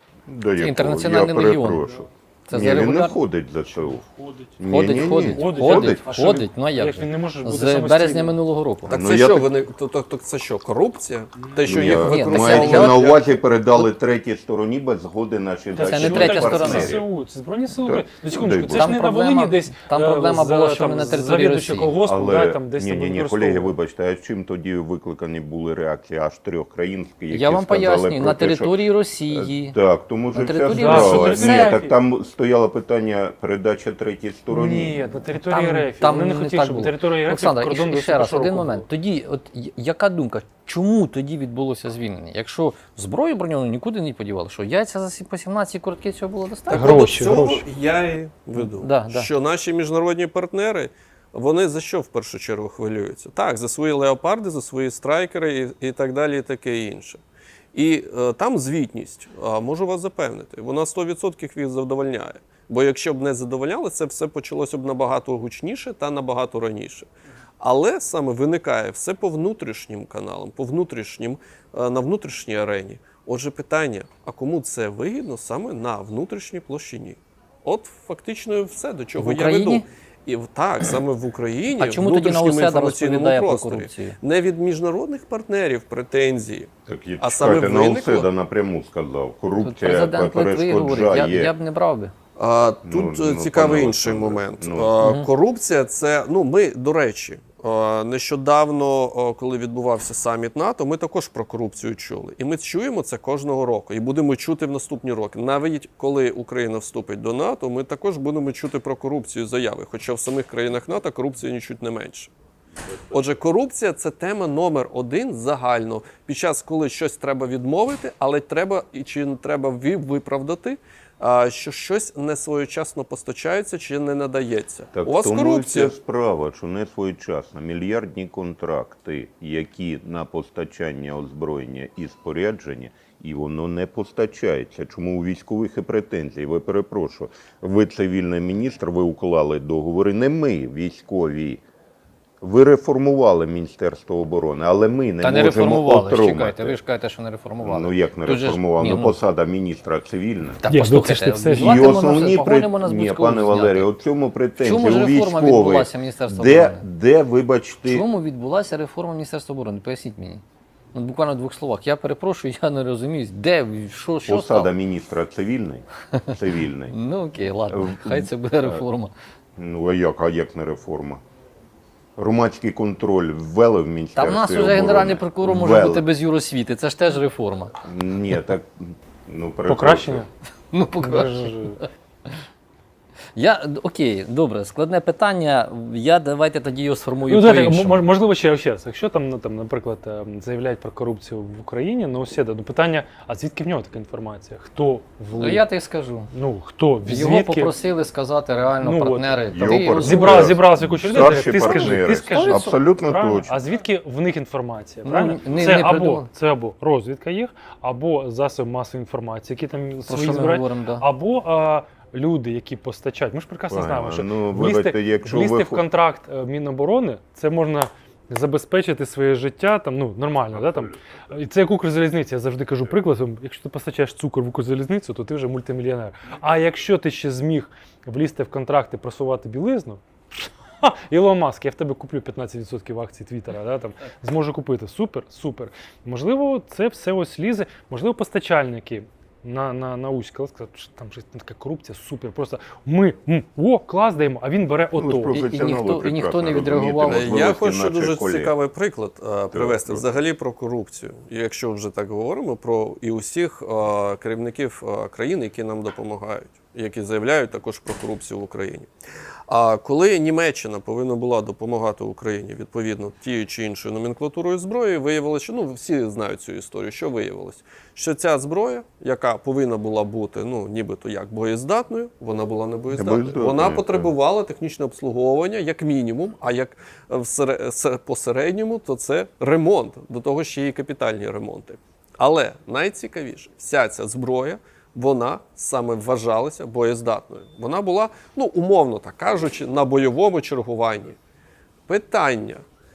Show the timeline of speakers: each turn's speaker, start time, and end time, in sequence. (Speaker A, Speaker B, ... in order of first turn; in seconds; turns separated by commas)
Speaker A: 0.3-4.0, Speaker B: 0.6-1.8, Speaker B: 2.5-3.2, Speaker C: 4.0-8.4, Speaker A: 4.6-6.0, Speaker B: 4.7-8.9, Speaker D: 8.9-13.2, Speaker A: 8.9-9.5, Speaker A: 11.7-17.1, Speaker B: 11.7-13.0, Speaker C: 15.8-23.7, Speaker B: 15.8-17.0, Speaker A: 17.8-18.9, Speaker B: 18.7-22.0, Speaker A: 22.0-35.2, Speaker B: 27.3-29.8, Speaker B: 30.3-31.8, Speaker C: 30.7-31.9, Speaker C: 34.5-38.9, Speaker B: 35.5-47.1, Speaker D: 46.7-57.2, Speaker C: 46.7-47.6, Speaker B: 48.6-49.3, Speaker D: 57.7-67.1, Speaker D: 67.6-88.3, Speaker B: 79.2-79.8, Speaker B: 81.7-84.2, Speaker A: 86.9-91.5, Speaker B: 89.6-92.1, Speaker D: 92.4-112.3, Speaker A: 92.8-94.9, Speaker B: 95.0-95.3, Speaker D: 113.1-126.0, Speaker A: 124.9-141.6, Speaker A: 142.4-146.8, Speaker B: 145.2-149.2, Speaker A: 147.6-150.6, Speaker B: 150.6-153.9, Speaker C: 150.7-151.9, Speaker A: 151.5-158.1, Speaker B: 154.6-156.9, Speaker B: 157.9-160.4, Speaker B: 160.9-164.7, Speaker A: 164.3-166.9, Speaker B: 166.9-169.1, Speaker A: 167.7-168.8, Speaker A: 169.6-171.2, Speaker A: 172.2-176.1, Speaker B: 174.2-177.7, Speaker A: 177.8-180.2, Speaker C: 179.7-180.3, Speaker B: 180.7-181.7, Speaker C: 181.0-181.8, Speaker B: 183.3-188.1, Speaker C: 187.3-195.7, Speaker B: 195.3-196.3, Speaker C: 196.3-197.8, Speaker B: 197.1-200.6, Speaker C: 198.8-245.4, Speaker A: 199.5-203.6, Speaker B: 201.1-202.7, Speaker B: 205.0-206.3, Speaker B: 210.1-211.1, Speaker A: 213.7-215.8, Speaker A: 244.9-248.6, Speaker B: 245.3-247.3, Speaker D: 247.1-258.9, Speaker A: 249.5-250.1, Speaker D: 259.5-291.2, Speaker A: 272.9-274.1, Speaker D: 291.9-292.6